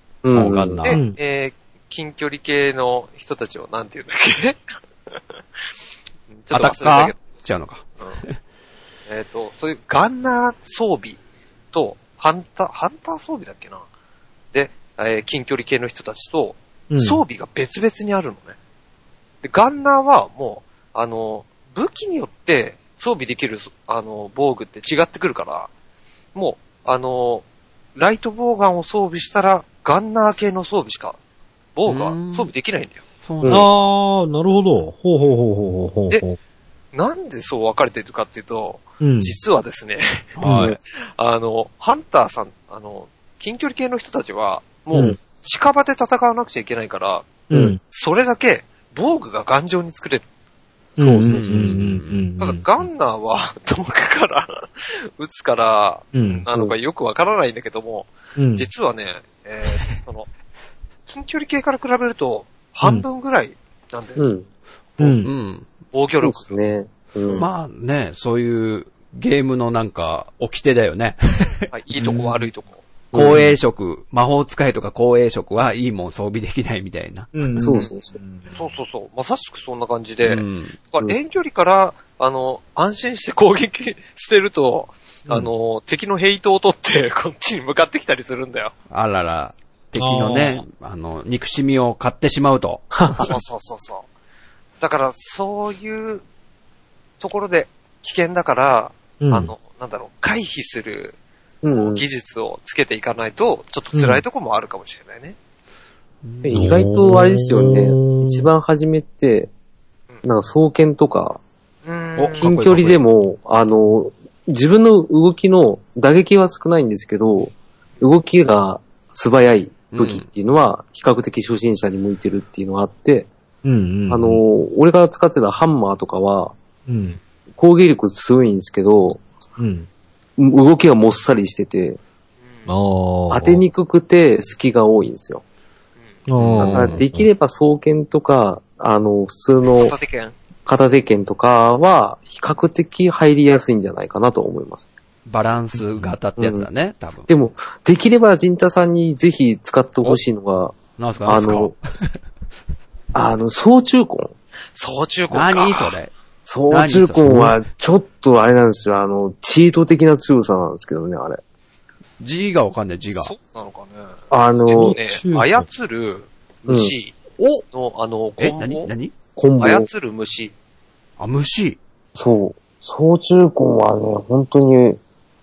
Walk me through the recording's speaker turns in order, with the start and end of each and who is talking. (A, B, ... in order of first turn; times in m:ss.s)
0:00.2-0:00.9 A
0:00.3-0:01.0 B
0:00.8-0:04.6 C
0:00.9-0:01.2 D
0:06.3-0:07.2 C
0:06.5-0:08.3 B
0:09.1-0:11.2 C
0:11.7-0:13.8 C
0:14.5-0:18.6 C
0:16.9-0:17.2 D
0:19.4-0:25.7 C
0:26.3-0:27.4 C
0:28.0-0:31.2 C
0:31.8-0:33.0 C
0:31.8-0:32.5 B
0:33.2-0:33.7 B
0:33.4-0:33.7 A
0:33.5-0:36.4 D
0:36.9-0:40.3 C
0:39.0-0:39.3 D
0:40.4-0:40.8 B
0:40.4-0:40.7 D
0:40.4-0:40.8 A
0:40.9-0:50.2 C
0:47.5-0:47.8 D
0:51.0-0:52.6 D
0:51.0-0:51.8 A
0:51.3-0:52.2 B
0:52.4-1:00.3 C
0:56.1-0:56.4 D
0:58.4-0:58.7 D
1:01.1-1:04.2 C
1:04.2-1:04.4 A
1:05.0-1:05.3 D
1:05.2-1:05.7 B
1:05.9-1:06.5 C
1:06.2-1:07.5 A
1:07.3-1:11.7 B
1:11.7-1:12.8 C
1:12.0-1:12.5 D
1:13.1-1:13.5 A
1:13.1-1:17.3 B
1:17.3-1:18.7 D
1:17.6-1:18.2 A
1:18.5-1:28.7 C
1:20.2-1:20.8 B
1:28.9-1:32.8 B
1:30.0-1:30.6 D
1:32.9-1:33.3 A
1:33.2-1:34.0 C
1:34.8-1:36.2 C
1:37.2-1:41.2 C
1:39.2-1:39.5 D
1:41.6-1:42.0 A
1:41.7-1:45.4 C
1:43.9-1:44.2 D
1:46.2-1:46.7 B
1:46.4-1:49.5 A
1:46.5-1:48.5 D
1:50.2-1:51.4 A
1:51.8-1:52.5 C
1:52.2-1:53.0 B
1:52.4-2:03.3 A
1:59.9-2:00.2 B
2:03.6-2:04.4 D
2:04.1-2:06.5 A
2:06.9-2:07.2 D
2:07.5-2:09.2 A
2:09.6-2:09.9 D
2:10.4-2:12.0 A
2:12.7-2:13.6 D
2:13.3-2:15.4 A
2:16.3-2:17.3 D
2:16.4-2:17.0 B
2:16.6-2:19.9 A
2:19.7-2:20.3 C
2:20.6-2:24.9 A
2:25.2-2:27.3 B
2:25.8-2:26.2 D
2:26.4-2:26.7 A
2:27.3-2:31.7 A
2:31.0-2:32.1 B
2:33.1-2:34.3 A
2:34.7-2:36.0 C
2:35.3-2:36.1 B
2:36.4-2:41.4 A
2:36.7-2:37.5 B
2:42.2-2:43.3 B
2:43.1-2:47.1 C
2:44.3-2:45.0 A
2:44.7-2:45.7 D
2:46.7-2:46.9 A
2:47.4-2:47.6 B
2:47.7-2:48.9 C
2:48.4-2:49.1 B
2:49.3-2:49.9 A
2:49.6-2:50.5 C
2:51.2-2:51.8 B
2:52.1-2:55.0 A